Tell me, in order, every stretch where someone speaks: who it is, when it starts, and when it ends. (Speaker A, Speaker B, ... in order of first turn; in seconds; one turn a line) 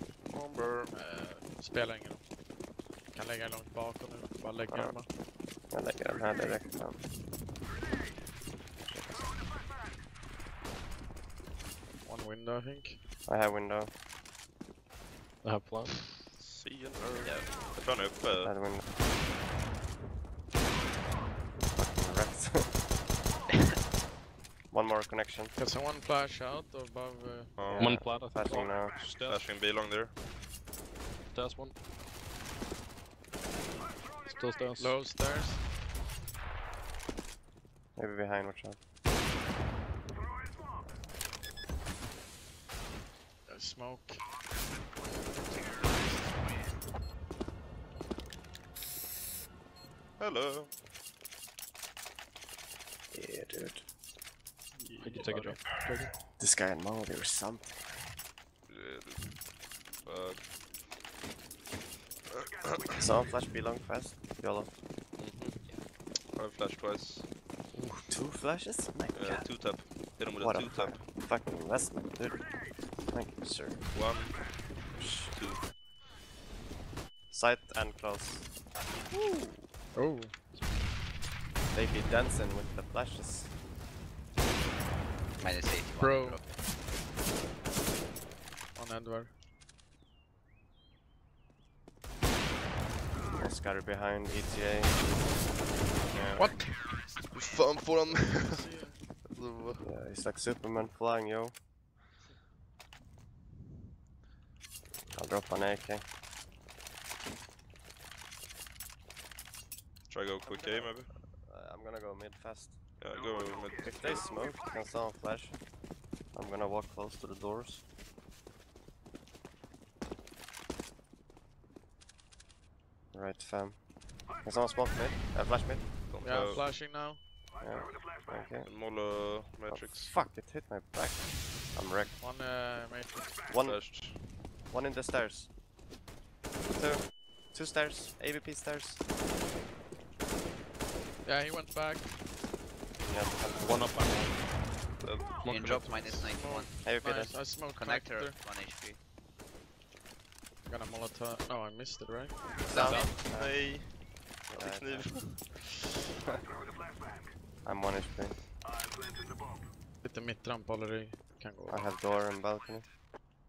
Speaker A: 0.3-0.9
Speaker B: 0.9-2.3
Speaker B: 3.1-5.1
Speaker C: 4.7-5.0
Speaker C: 5.7-7.0
Speaker C: 8.8-9.5
Speaker B: 12.1-13.0
Speaker C: 13.3-13.9
Speaker D: 15.4-16.0
Speaker A: 16.4-18.6
Speaker E: 17.2-17.7
Speaker C: 18.4-18.9
Speaker C: 21.7-22.8
Speaker C: 24.7-25.6
Speaker B: 25.6-27.6
Speaker A: 27.6-28.0
Speaker C: 27.7-29.0
Speaker D: 27.8-29.6
Speaker A: 28.8-30.2
Speaker D: 31.3-31.8
Speaker D: 34.2-35.0
Speaker B: 34.8-35.7
Speaker C: 38.0-38.8
Speaker B: 43.5-44.3
Speaker A: 50.2-50.7
Speaker C: 53.1-53.9
Speaker B: 54.8-55.7
Speaker D: 55.0-56.2
Speaker C: 55.8-58.2
Speaker A: 58.7-60.6
Speaker A: 62.3-63.4
Speaker C: 63.0-64.7
Speaker A: 65.2-67.3
Speaker C: 67.8-73.9
Speaker A: 69.1-71.1
Speaker A: 73.9-75.7
Speaker C: 77.3-78.5
Speaker B: 79.9-80.3
Speaker C: 81.7-83.5
Speaker E: 85.4-86.5
Speaker B: 86.0-86.4
Speaker B: 88.7-89.3
Speaker C: 93.4-95.4
Speaker C: 96.0-96.6
Speaker B: 96.4-96.9
Speaker A: 97.3-99.9
Speaker B: 98.0-99.0
Speaker C: 99.8-101.6
Speaker A: 104.9-105.3
Speaker C: 105.1-106.1
Speaker A: 110.1-111.1
Speaker C: 110.4-113.0
Speaker A: 113.0-114.4
Speaker C: 113.8-115.6
Speaker C: 116.3-117.8
Speaker C: 123.1-126.6
Speaker A: 126.1-126.7
Speaker B: 126.2-127.2
Speaker C: 127.6-128.7
Speaker A: 128.6-130.2
Speaker C: 129.7-132.2
Speaker B: 132.2-133.3
Speaker C: 133.5-135.5
Speaker A: 133.6-134.5
Speaker C: 136.6-139.0
Speaker B: 141.2-142.3
Speaker C: 143.0-144.0
Speaker D: 143.6-144.9
Speaker A: 145.0-145.8
Speaker D: 145.4-146.2
Speaker E: 145.5-146.7
Speaker B: 146.2-148.4
Speaker C: 146.8-147.4
Speaker E: 147.7-149.0
Speaker B: 150.7-152.4
Speaker C: 152.7-155.4
Speaker D: 152.8-153.3
Speaker A: 152.9-155.7
Speaker C: 157.6-158.4
Speaker B: 160.0-162.0
Speaker C: 161.7-162.9